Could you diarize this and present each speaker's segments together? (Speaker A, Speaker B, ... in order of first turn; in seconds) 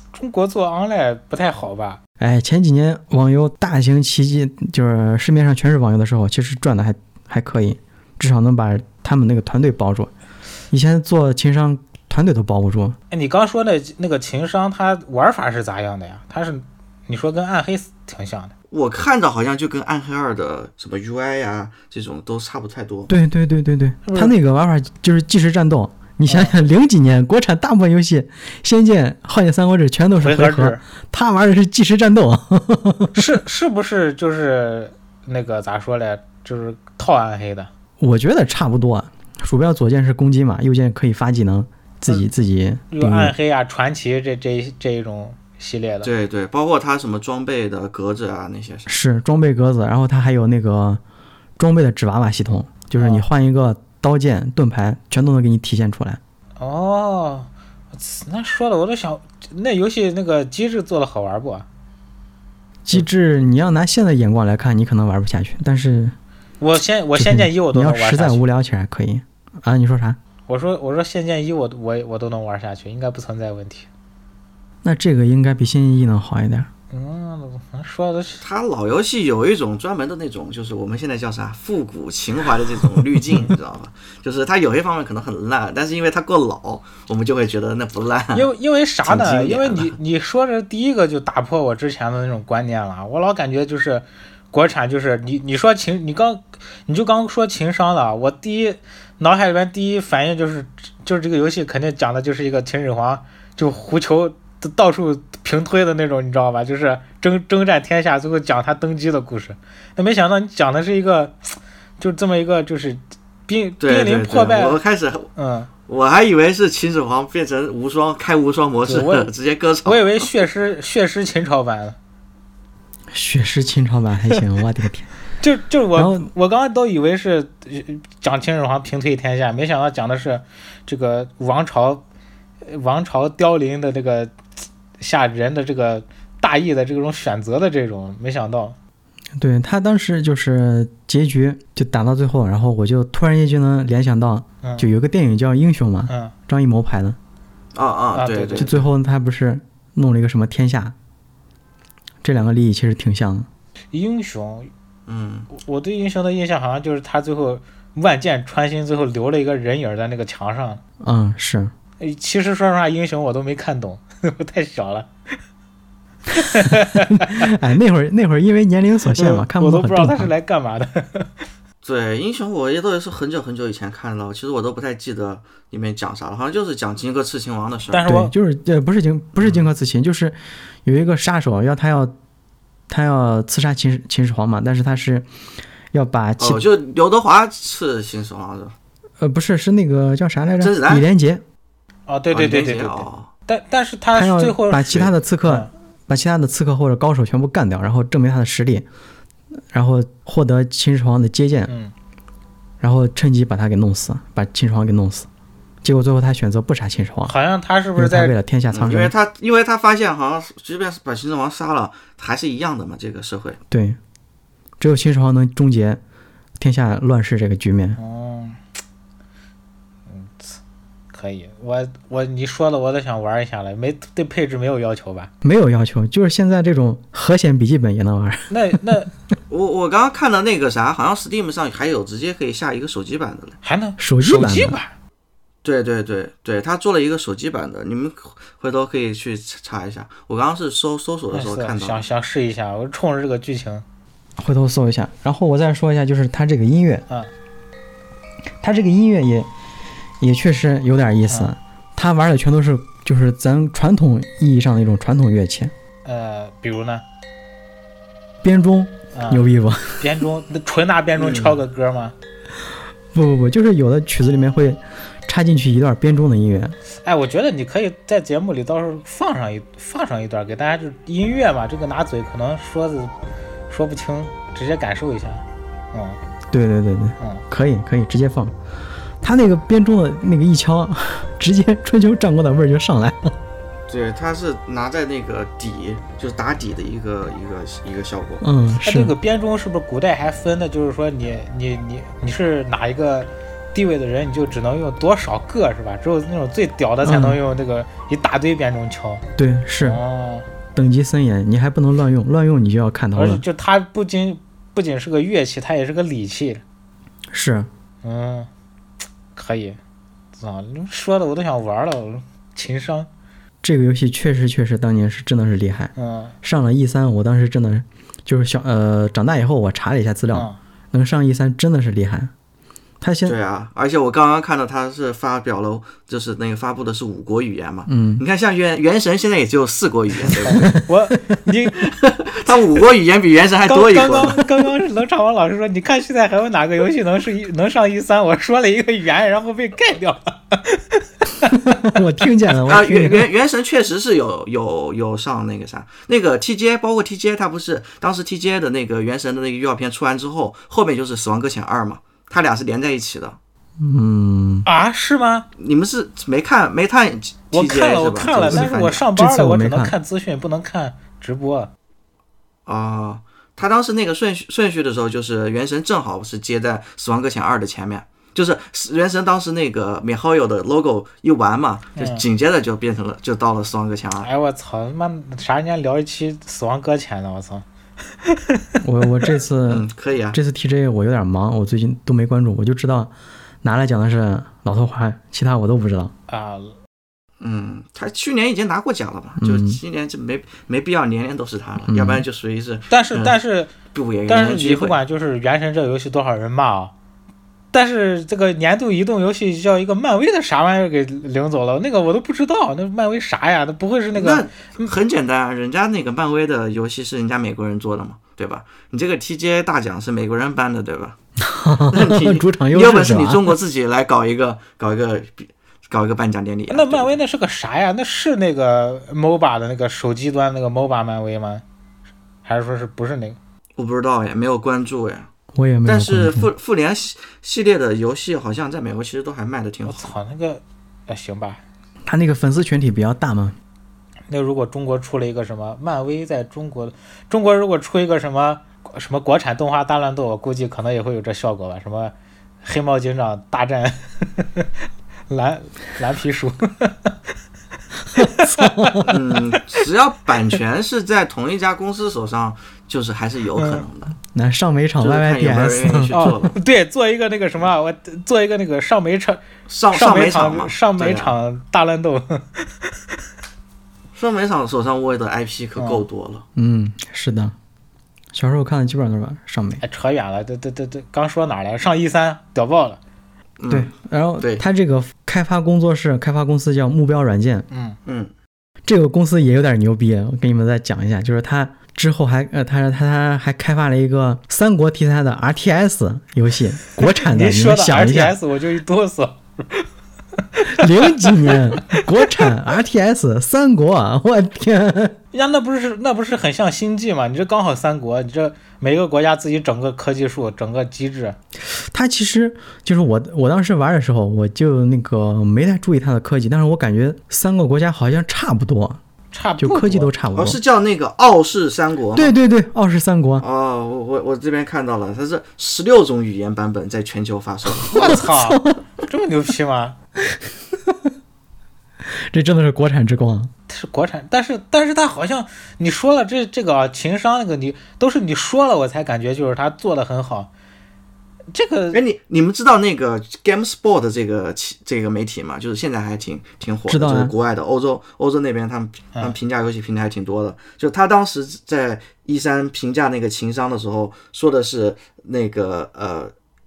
Speaker A: 0.1-2.0, 13.1-18.5, 24.1-24.3, 26.3-26.5, 30.2-30.8, 33.1-37.7, 42.9-46.1, 53.0-53.3, 56.6-61.7, 66.6-68.4, 70.5-73.9, 76.9-78.4, 88.3-114.8, 115.4-115.7, 118.9-119.3, 119.8-122.0, 125.4-132.0, 132.6-134.3, 135.0-138.8, 144.6-144.9, 146.1-146.3, 148.1-148.7, 153.9-154.7, 155.5-160.8, 162.0-165.1, 166.3-167.5, 169.1-171.3, 177.9-178.3, 192.1-195.7, 201.7-201.9, 207.3-208.3, 218.0-218.6, 220.1-220.6, 221.1-225.3, 228.5-229.1, 233.6-234.9, 241.3-243.8, 251.3-251.5, 256.1-257.0, 259.1-259.5, 260.0-262.1, 267.0-273.1, 273.7-276.2, 288.8-299.2, 299.8-300.5, 303.2-306.6, 308.0-308.5, 309.4-309.8, 310.4-313.1, 316.0-316.4, 330.3-331.9, 333.7-341.6, 354.7-355.5, 357.5-361.7, 372.0-372.2, 374.2-377.6, 378.2-378.8, 386.3-386.8, 392.9-393.7, 394.3-396.9, 397.7-404.9, 416.7-421.6, 422.4-423.4, 429.9-431.6, 434.3-444.7, 445.3-447.2, 448.1-449.6, 453.6-453.8, 456.1-459.4, 459.9-463.2, 465.8-466.0, 469.8-473.0, 477.7-478.0, 487.0-489.9, 490.6-492.5, 495.3-501.4, 509.3-510.1, 517.9-520.0, 523.7-530.5, 531.5-532.0
Speaker B: 2.2-10.1, 10.7-13.0, 23.1-33.2, 38.0-43.3, 48.9-51.0, 51.6-56.2, 62.9-66.2, 67.2-70.2, 74.8-76.7, 123.1-125.1, 126.0-126.3, 139.4-147.2, 148.6-150.9, 152.2-153.5, 161.0-161.7, 166.6-170.3, 178.1-182.1, 182.9-185.2, 185.9-186.6, 189.2-191.4, 194.1-198.8, 199.7-201.7, 202.8-205.3, 205.8-207.3, 208.0-209.1, 213.7-214.0, 214.8-216.0, 216.6-218.0, 225.4-228.5, 234.0-234.8, 244.4-247.1, 248.6-249.5, 250.2-255.7, 258.4-260.0, 263.1-266.8, 276.5-278.5, 279.2-283.4, 288.4-289.1, 297.0-297.4, 299.4-300.0, 300.8-303.4, 307.3-307.7, 313.6-322.3, 323.0-323.4, 327.9-328.2, 330.6-331.4, 341.5-343.3, 353.8-354.7, 358.5-359.9, 378.8-383.1, 383.6-386.1, 389.4-389.8, 391.9-392.2, 411.4-413.6, 425.5-426.5, 432.1-433.6, 448.1-449.1, 454.3-456.1, 466.6-467.5, 468.3-469.8, 473.7-477.7, 478.9-488.4, 490.6-495.1, 501.8-509.0, 509.6-510.6, 512.1-513.4, 518.0-518.8, 522.3-523.5, 536.9-537.3
Speaker C: 18.7-23.1, 46.0-48.9, 78.4-88.5, 89.1-90.0, 113.8-115.3, 115.9-120.3, 147.7-148.8, 155.1-155.5, 171.8-178.1, 186.4-188.8, 190.6-191.1, 192.3-193.3, 208.7-213.6, 229.5-233.6, 235.6-242.1, 261.2-261.6, 283.9-288.4, 323.3-330.7, 331.9-334.4, 342.7-353.4, 355.6-359.1, 362.7-374.3, 379.7-380.4, 387.4-393.4, 393.9-395.0, 404.1-411.2, 411.9-417.1, 423.8-425.3, 425.9-430.1, 449.1-454.1, 455.0-456.6, 459.7-461.4, 464.1-466.5, 473.6-474.6, 478.1-478.3, 510.4-512.3, 513.4-518.2, 531.9-546.3